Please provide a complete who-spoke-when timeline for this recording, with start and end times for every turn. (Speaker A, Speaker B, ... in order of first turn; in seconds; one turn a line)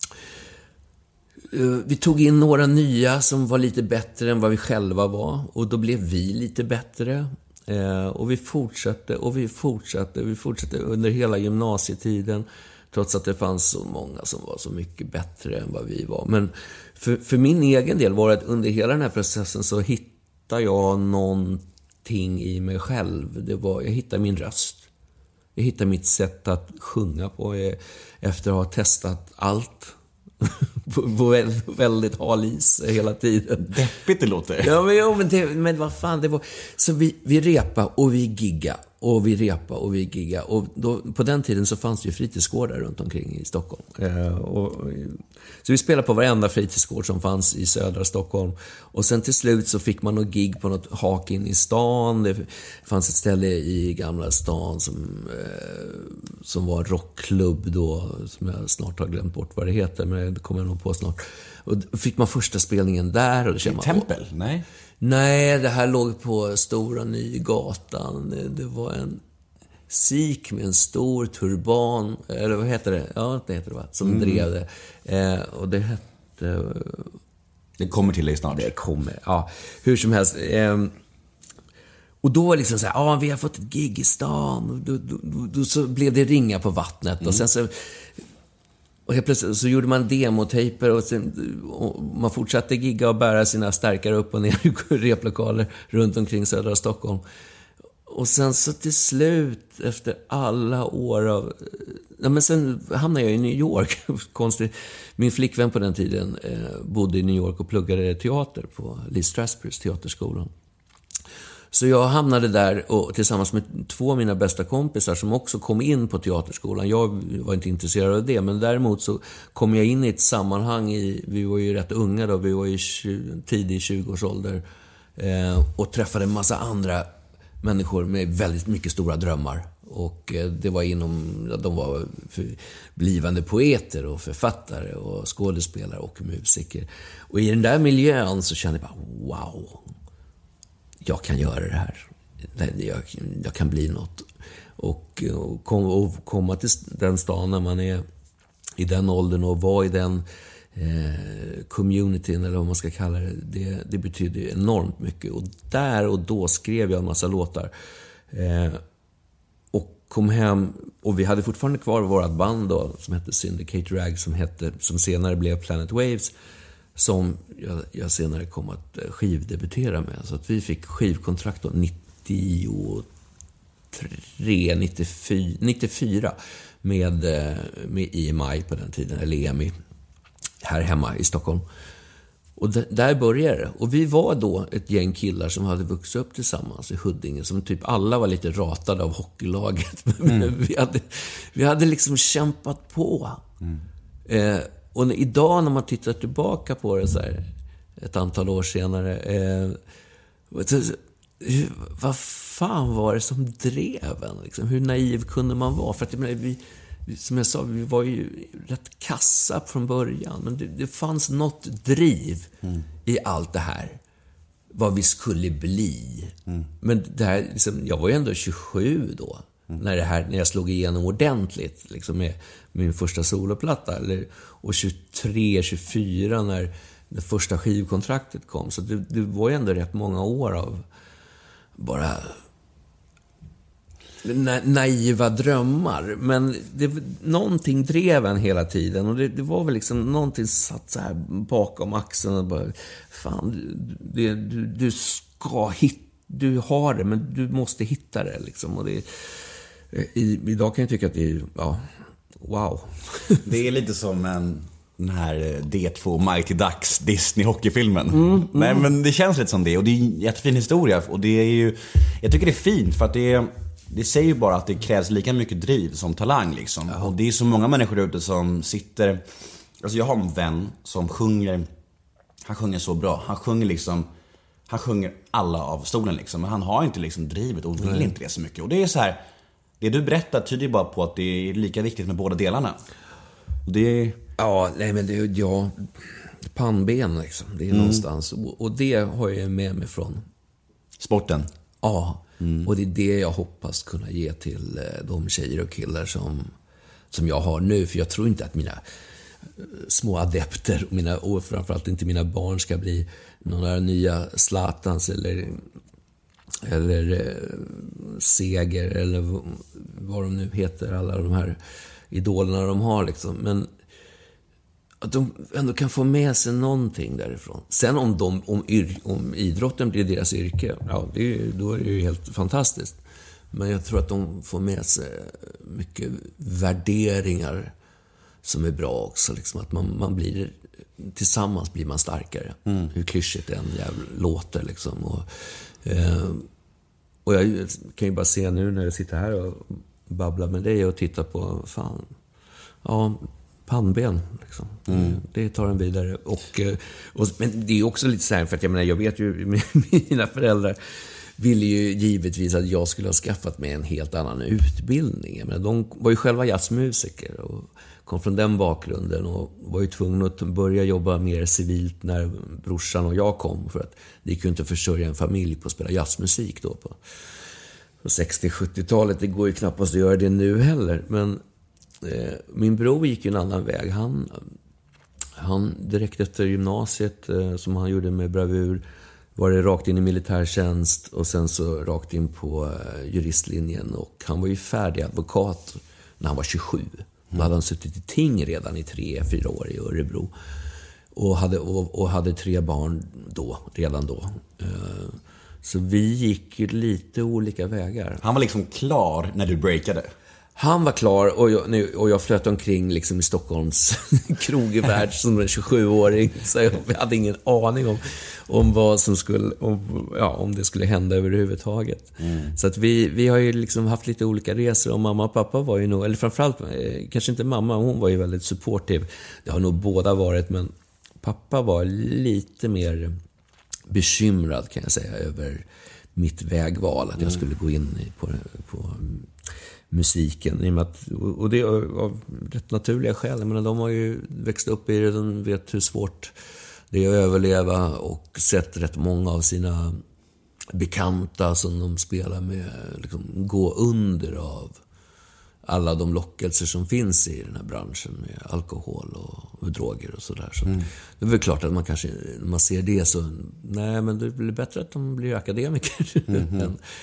Speaker A: 1.5-24.9
Speaker A: 25.6-33.8
Speaker B: 33.6-34.8
Speaker A: 34.6-64.1
Speaker B: 63.6-64.7
Speaker A: 65.0-69.2
Speaker A: 69.9-77.2
Speaker B: 74.0-74.5
Speaker B: 77.8-78.7
Speaker A: 78.5-81.0
Speaker A: 82.2-88.1
Speaker A: 89.1-97.2
Speaker A: 98.1-110.5
Speaker A: 111.7-124.6
Speaker A: 125.2-127.1
Speaker A: 127.6-139.8
Speaker A: 141.0-148.1
Speaker A: 148.8-157.7
Speaker A: 158.3-158.8
Speaker A: 159.7-166.3
Speaker A: 167.0-173.1
Speaker A: 173.9-179.7
Speaker A: 180.6-181.6
Speaker A: 182.6-193.4
Speaker A: 194.3-197.5
Speaker A: 198.0-199.8
Speaker A: 200.5-212.5
Speaker A: 213.0-214.0
Speaker A: 214.7-230.8
Speaker A: 231.8-232.4
Speaker A: 234.2-249.1
Speaker A: 249.9-251.8
Speaker A: 252.4-253.4
Speaker B: 253.4-269.2
Speaker A: 258.2-258.8
Speaker B: 269.8-271.7
Speaker B: 272.4-274.1
Speaker B: 274.7-279.2
Speaker A: 277.8-278.1
Speaker B: 279.8-282.8
Speaker B: 283.7-284.2
Speaker A: 284.4-290.2
Speaker B: 287.7-288.0
Speaker B: 291.0-291.5
Speaker A: 291.8-296.5
Speaker B: 292.4-292.7
Speaker A: 297.1-298.8
Speaker A: 299.6-305.6
Speaker A: 306.6-311.6
Speaker A: 312.1-313.7
Speaker A: 315.0-323.0
Speaker A: 323.5-327.7
Speaker A: 328.4-335.3
Speaker A: 335.8-336.5
Speaker A: 337.2-342.1
Speaker A: 342.8-350.8
Speaker B: 344.9-345.2
Speaker A: 351.4-367.0
Speaker A: 368.0-371.4
Speaker A: 372.0-374.5
Speaker A: 375.4-378.8
Speaker A: 379.4-390.3
Speaker A: 391.1-398.2
Speaker B: 398.2-400.1
Speaker A: 400.6-423.2
Speaker B: 412.2-412.5
Speaker A: 423.9-429.3
Speaker A: 429.9-436.3
Speaker A: 436.9-440.0
Speaker A: 440.7-444.8
Speaker A: 445.6-456.8
Speaker B: 456.3-456.7